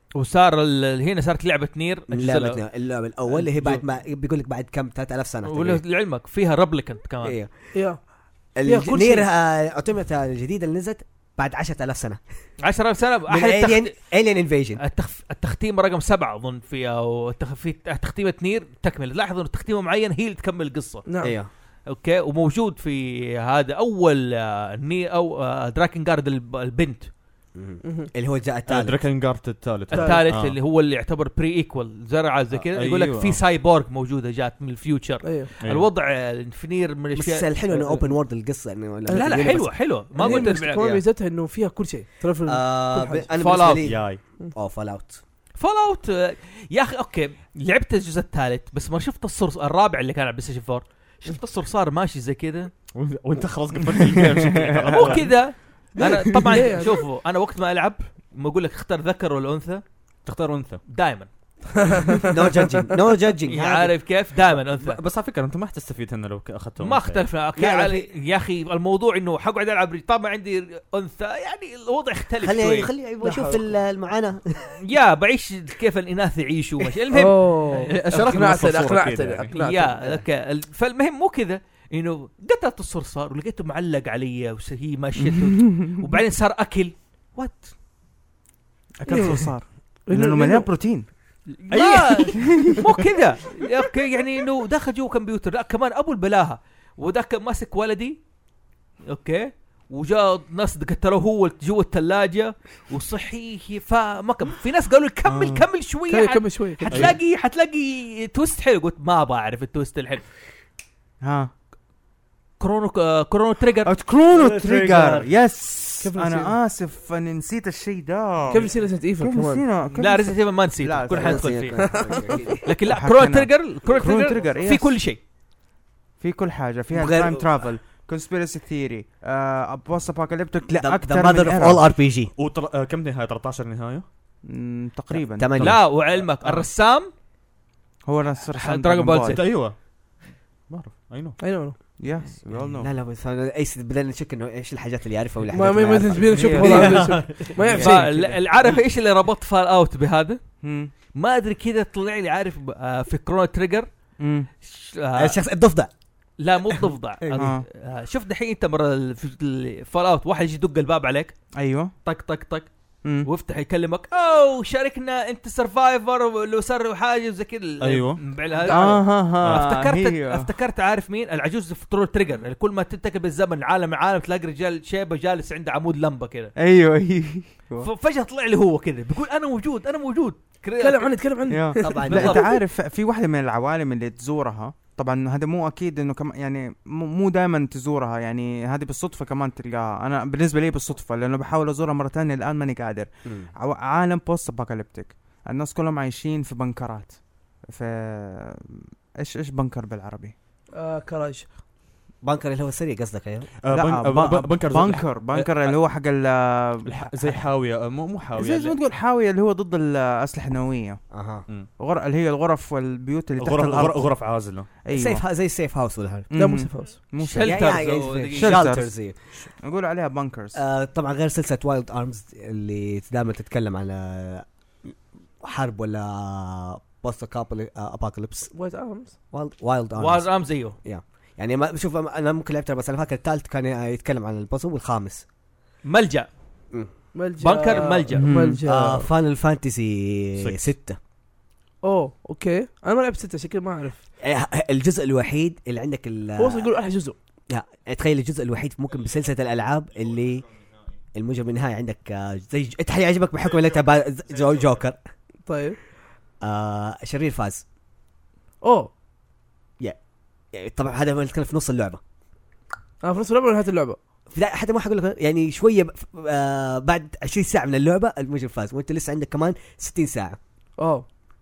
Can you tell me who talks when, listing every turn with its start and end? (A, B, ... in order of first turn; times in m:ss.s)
0:00.1-0:02.6 A
0:02.1-0:05.8 B
0:03.3-0:03.8 A
0:05.4-0:07.4 A
0:07.2-0:07.7 B
0:07.7-0:08.0 C
0:08.6-0:12.2 B
0:08.6-0:09.3 C
0:12.6-0:14.2 A
0:13.3-0:14.8 B
0:14.8-0:21.1 A
0:21.1-0:21.4 C
0:21.2-0:21.5 B
0:21.9-0:27.1 A
0:27.5-0:29.0 B
0:27.8-0:28.1 C
0:28.7-0:30.6 D
0:29.9-0:30.3 C
0:29.9-0:38.0 A
0:32.5-0:33.4 D
0:35.2-0:35.5 C
0:35.6-0:35.9 D
0:37.1-0:41.0 B
0:39.1-0:43.3 C
0:39.1-0:40.8 A
0:42.4-0:45.2 B
0:43.4-0:43.9 A
0:43.6-0:44.2 D
0:45.6-0:52.7 A
0:52.9-0:55.8 D
0:54.2-0:55.2 E
0:54.9-0:59.8 A
0:56.0-0:56.9 C
1:00.2-1:00.8 D
1:00.8-1:01.9 A
1:01.7-1:02.6 C
1:02.3-1:04.0 B
1:03.4-1:05.0 A
1:04.8-1:07.3 D
1:06.8-1:12.9 A
1:07.6-1:08.1 B
1:12.4-1:14.7 B
1:14.8-1:18.7 A
1:17.1-1:20.2 C
1:17.9-1:19.5 D
1:19.5-1:27.7 A
1:25.6-1:25.9 E
1:29.0-1:31.1 E
1:29.1-1:30.7 C
1:31.5-1:38.2 A
1:31.7-1:32.4 D
1:32.4-1:32.8 E
1:39.1-1:50.3 A
1:45.2-1:45.6 E
1:46.1-1:47.1 C
1:46.9-1:47.2 D
1:51.2-1:51.5 E
1:52.6-1:53.9 A
1:53.8-2:01.8 E
1:54.3-1:55.3 B
1:56.0-1:56.6 C
1:58.5-1:59.6 C
1:59.9-2:05.2 A
2:01.1-2:02.7 B
2:01.8-2:02.4 C
2:02.9-2:05.0 E
2:04.0-2:04.6 B
2:06.2-2:11.8 E
2:06.9-2:07.5 B
2:10.7-2:12.3 B
2:12.3-2:14.0 D
2:14.4-2:15.7 E
2:15.1-2:15.8 B
2:15.6-2:16.6 D
2:15.6-2:17.1 A
2:18.0-2:19.4 E
2:18.5-2:19.4 A
2:19.3-2:21.8 D
2:21.4-2:21.8 C
2:22.0-2:22.9 E
2:22.5-2:28.4 B
2:25.5-2:28.1 C
2:26.3-2:27.3 E
2:27.8-2:33.9 A
2:30.6-2:30.9 E
2:34.2-2:34.5 E
2:34.6-2:35.4 A
2:35.1-2:35.9 B
2:36.4-2:41.4 A
2:36.7-2:37.5 B
2:37.4-2:37.6 E
2:41.6-2:41.9 E
2:42.0-2:42.7 A
2:43.2-2:56.5 A
2:47.8-2:48.4 D
2:48.6-2:50.5 E
2:49.4-2:49.8 D
2:56.6-2:57.9 E
2:57.8-3:01.2 A
3:00.8-3:02.5 C
3:01.5-3:20.3 E
3:01.8-3:02.5 B
3:02.1-3:02.4 A
3:13.2-3:13.5 B
3:20.7-3:21.5 C
3:22.2-3:23.5 B
3:23.6-3:25.8 D
3:23.7-3:27.4 E
3:26.8-3:28.8 D
3:28.3-3:31.1 E
3:31.1-3:31.4 B
3:31.8-3:35.2 E
3:33.4-3:34.7 D
3:34.8-3:36.3 B
3:36.3-3:40.6 E
3:36.3-3:37.0 C
3:37.2-3:38.7 A
3:37.4-3:39.4 B
3:40.5-3:48.5 B
3:48.5-3:49.2 C
3:49.3-3:55.2 B
3:50.0-3:50.8 A
3:55.8-3:56.3 A
3:57.1-3:59.1 C
3:57.4-3:58.3 A
3:58.2-3:58.6 E
3:58.6-4:01.0 B
4:00.4-4:00.7 D
4:01.8-4:04.0 C
4:04.2-4:06.7 B
4:06.4-4:07.2 C
4:07.5-4:10.5 B
4:11.1-4:15.0 B
4:15.4-4:15.8 C
4:16.4-4:17.6 B
4:18.6-4:18.9 C
4:20.5-4:22.0 B
4:23.0-4:24.0 C
4:24.3-4:30.4 B
4:30.8-4:31.0 C